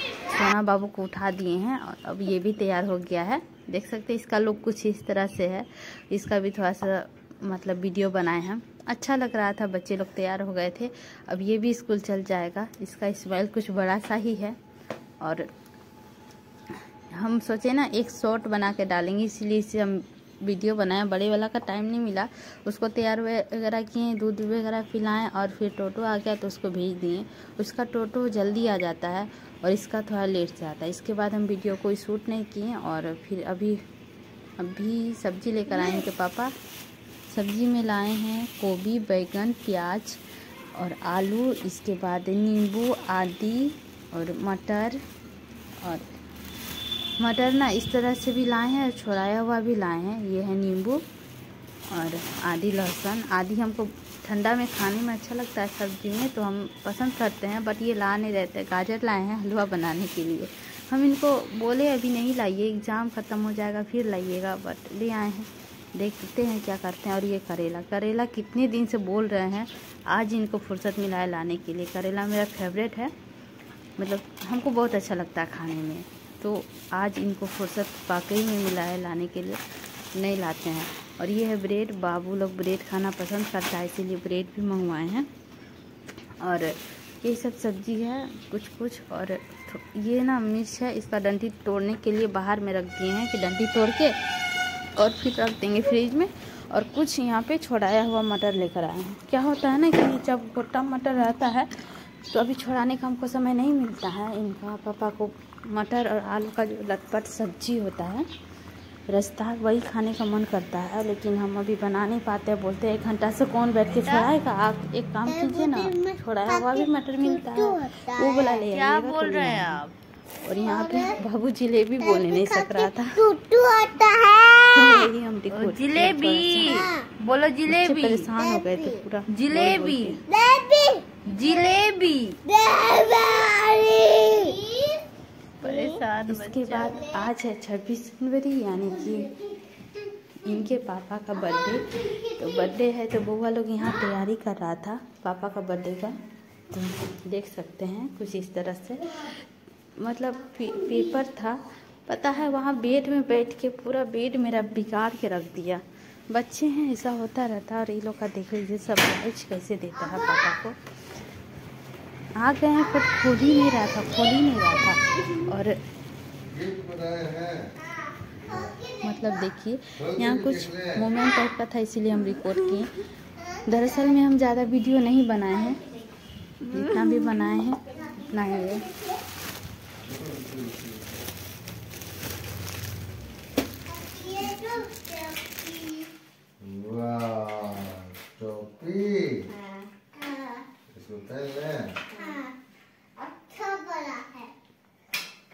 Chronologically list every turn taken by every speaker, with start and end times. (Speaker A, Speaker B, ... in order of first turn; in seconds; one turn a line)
Speaker A: 0.2-14.6
Speaker A: 15.2-15.5
Speaker A: 17.1-33.8
Speaker A: 34.6-36.5
Speaker B: 35.7-36.0
Speaker A: 37.3-40.2
Speaker A: 40.7-45.0
Speaker A: 45.8-46.0
Speaker A: 47.2-51.0
Speaker A: 51.9-73.1
Speaker A: 74.0-79.6
Speaker A: 80.1-85.3
Speaker A: 86.4-94.2
Speaker A: 95.0-101.7
Speaker A: 102.2-108.3
Speaker A: 109.1-119.8
Speaker C: 113.9-114.3
Speaker B: 115.2-118.6
Speaker C: 118.6-119.9
Speaker A: 120.4-123.2
Speaker B: 120.5-121.2
Speaker B: 122.0-125.0
Speaker A: 124.7-126.8
Speaker C: 125.5-128.3
Speaker B: 126.6-127.1
Speaker A: 127.7-130.2
Speaker B: 128.4-129.0
Speaker C: 129.3-130.2
Speaker B: 130.3-131.1
Speaker A: 131.3-131.9
Speaker C: 131.3-132.4
Speaker B: 132.4-135.0
Speaker C: 134.3-134.6
Speaker C: 135.6-137.0
Speaker A: 135.6-139.3
Speaker B: 136.8-137.2
Speaker B: 138.8-139.8
Speaker A: 140.4-146.1
Speaker B: 141.3-142.8
Speaker A: 146.7-149.4
Speaker A: 150.0-160.8
Speaker B: 150.6-151.2
Speaker B: 159.9-160.5
Speaker A: 162.3-165.8
Speaker D: 166.5-167.7
Speaker B: 167.8-169.4
Speaker D: 168.4-168.7
Speaker A: 169.0-173.0
Speaker D: 170.0-171.1
Speaker B: 173.3-174.2
Speaker A: 173.7-175.8
Speaker B: 175.5-176.2
Speaker C: 176.6-177.2
Speaker A: 176.7-178.8
Speaker B: 177.8-179.2
Speaker D: 180.0-181.1
Speaker B: 183.8-186.1
Speaker D: 186.6-189.5
Speaker B: 189.5-190.6
Speaker D: 190.9-192.0
Speaker B: 192.1-192.5
Speaker C: 192.1-192.4
Speaker B: 193.2-194.5